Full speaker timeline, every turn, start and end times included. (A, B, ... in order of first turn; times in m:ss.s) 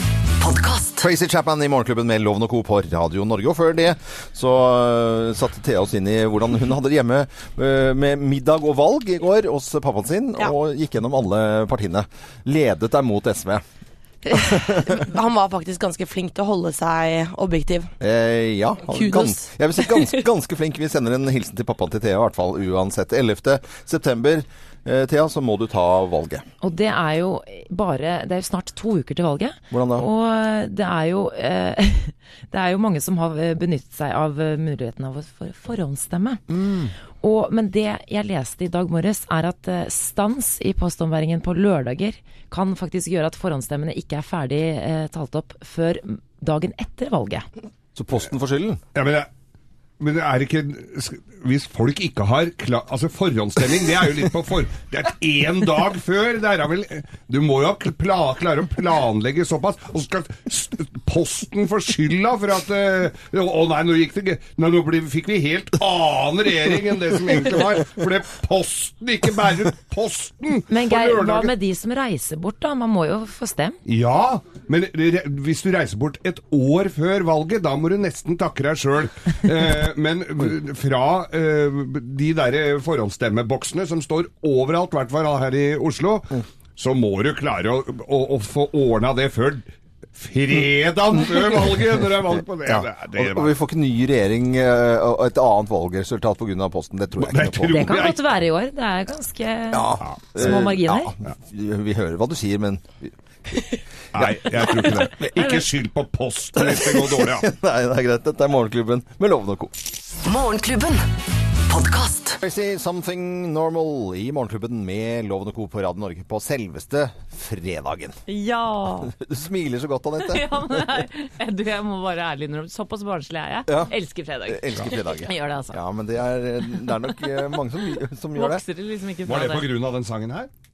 0:00.4-0:01.1 A
0:01.0-0:13.6 B
0:14.2-0:17.9 C
0:14.3-0:15.0 B
0:18.0-0:26.4 B
0:18.9-0:20.1 C
0:26.6-0:36.4 D
0:29.7-0:30.1 B
0:36.5-0:36.9 B
0:37.2-0:47.5 D
0:48.0-0:48.8 B
0:49.0-0:49.3 E
0:50.0-1:11.5 E
1:10.7-1:13.8 D
1:13.9-1:33.6 E
1:32.7-1:38.0 B
1:37.2-1:38.2 E
1:37.7-1:41.1 D
1:39.7-1:43.1 B
1:40.0-1:40.5 E
1:44.1-1:47.5 E
1:44.2-1:45.6 B
1:46.6-1:49.7 B
1:50.2-1:51.1 A
1:51.7-1:52.4 A
1:52.4-1:58.2 B
1:58.3-1:59.1 F
1:59.0-2:00.6 B
2:00.2-2:05.8 F
2:03.7-2:03.9 B
2:04.5-2:08.6 B
2:08.3-2:09.7 F
2:09.3-2:10.5 E